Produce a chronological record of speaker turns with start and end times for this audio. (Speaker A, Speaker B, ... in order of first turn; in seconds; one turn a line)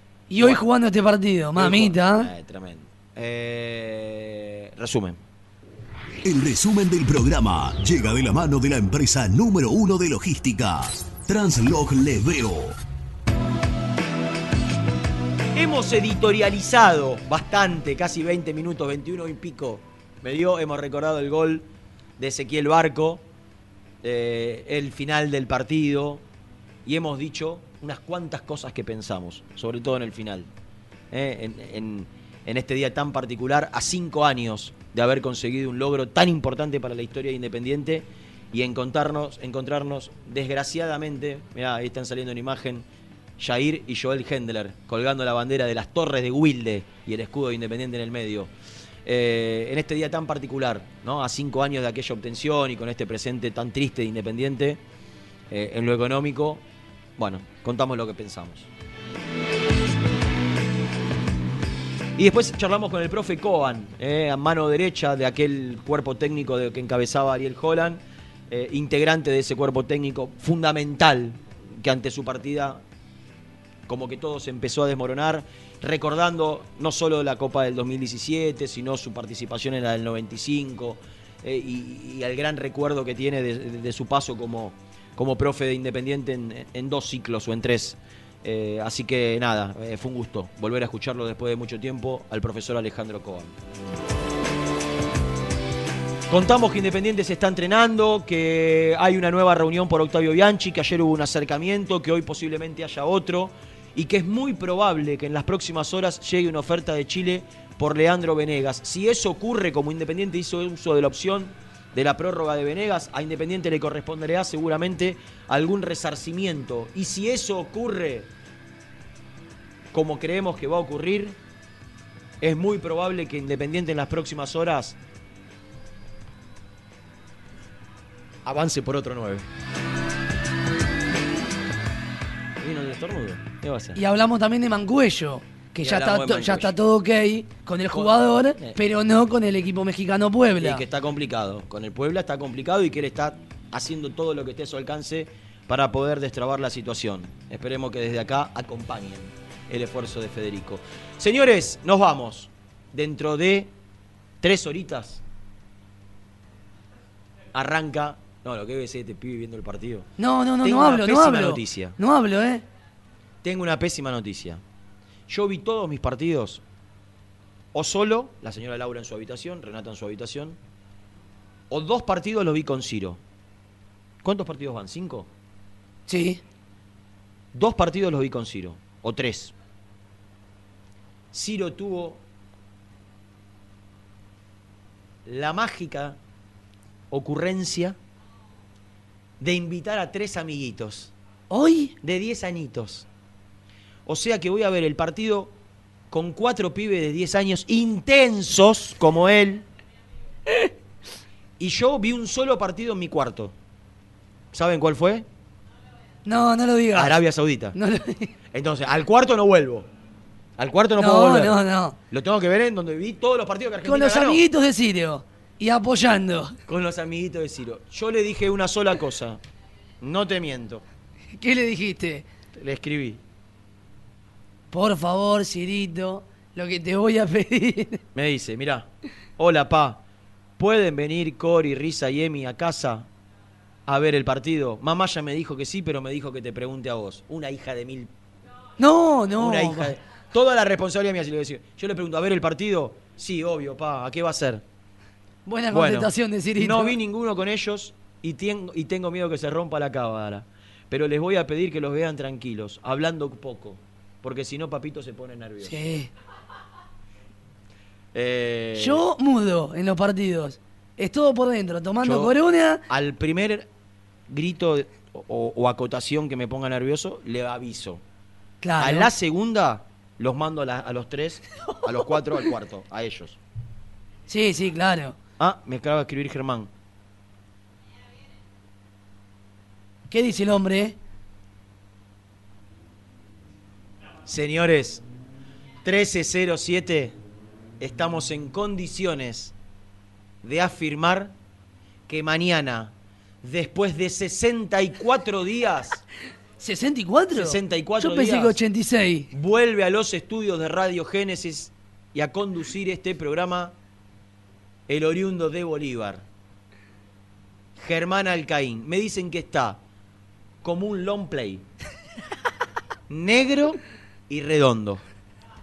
Speaker A: 0.3-2.3
Speaker B: 0.4-0.6
Speaker B: 1.6-5.2
Speaker C: 6.2-12.8
Speaker B: 15.5-21.6
Speaker B: 22.2-23.2
Speaker B: 24.0-26.2
Speaker B: 26.8-30.5
Speaker B: 31.1-42.8
Speaker B: 43.4-48.5
Speaker B: 49.0-54.8
Speaker B: 55.5-56.6
Speaker B: 57.2-58.7
Speaker B: 62.2-72.8
Speaker B: 73.9-93.5
Speaker B: 96.3-118.3
Speaker B: 119.9-121.4
Speaker B: 122.4-125.0
Speaker B: 128.4-129.5
Speaker B: 132.6-134.0
Speaker A: 133.9-140.8
Speaker B: 135.8-136.7
Speaker B: 137.9-138.8
Speaker B: 140.6-153.7
Speaker B: 154.4-155.2
Speaker B: 157.5-160.1
Speaker A: 160.2-162.6
Speaker B: 160.6-162.0
Speaker B: 163.4-164.6
Speaker B: 165.3-166.6
Speaker B: 167.7-170.6
Speaker B: 171.7-173.2
Speaker B: 174.2-175.3
Speaker A: 176.1-176.4
Speaker B: 177.5-179.5
Speaker B: 181.3-182.2
Speaker B: 185.2-186.2
Speaker B: 187.1-188.0
Speaker B: 189.4-191.1
Speaker A: 191.5-191.9
Speaker B: 192.0-193.1
Speaker B: 194.1-195.5
Speaker B: 196.1-199.6
Speaker B: 201.6-203.5
Speaker B: 204.5-205.2
Speaker A: 206.2-207.1
Speaker B: 206.9-207.8
Speaker A: 207.7-208.3
Speaker B: 208.5-209.9
Speaker B: 210.6-211.6
Speaker A: 211.0-211.9
Speaker B: 212.1-214.4
Speaker A: 213.8-216.5
Speaker B: 216.7-219.4
Speaker B: 220.0-220.8
Speaker A: 221.3-222.3
Speaker B: 222.5-223.2
Speaker A: 224.7-228.0
Speaker B: 228.1-230.0
Speaker B: 230.6-233.1
Speaker B: 233.9-238.1
Speaker A: 238.8-239.9
Speaker B: 239.4-244.6
Speaker A: 245.4-246.9
Speaker B: 245.7-255.8
Speaker A: 255.6-256.1
Speaker B: 258.1-259.0
Speaker A: 258.8-262.8
Speaker B: 262.0-262.3
Speaker B: 262.9-263.7
Speaker B: 264.3-268.0
Speaker A: 268.6-269.1
Speaker B: 268.8-273.4
Speaker A: 274.3-275.2
Speaker B: 275.4-276.7
Speaker A: 280.1-281.0
Speaker B: 284.2-285.0
Speaker B: 285.8-287.1
Speaker B: 287.8-289.5
Speaker B: 290.4-291.3
Speaker B: 292.1-296.0
Speaker A: 296.6-299.3
Speaker B: 297.3-298.6
Speaker B: 299.3-303.7
Speaker B: 304.9-306.2
Speaker B: 307.8-309.8
Speaker B: 310.6-311.6
Speaker B: 313.1-315.0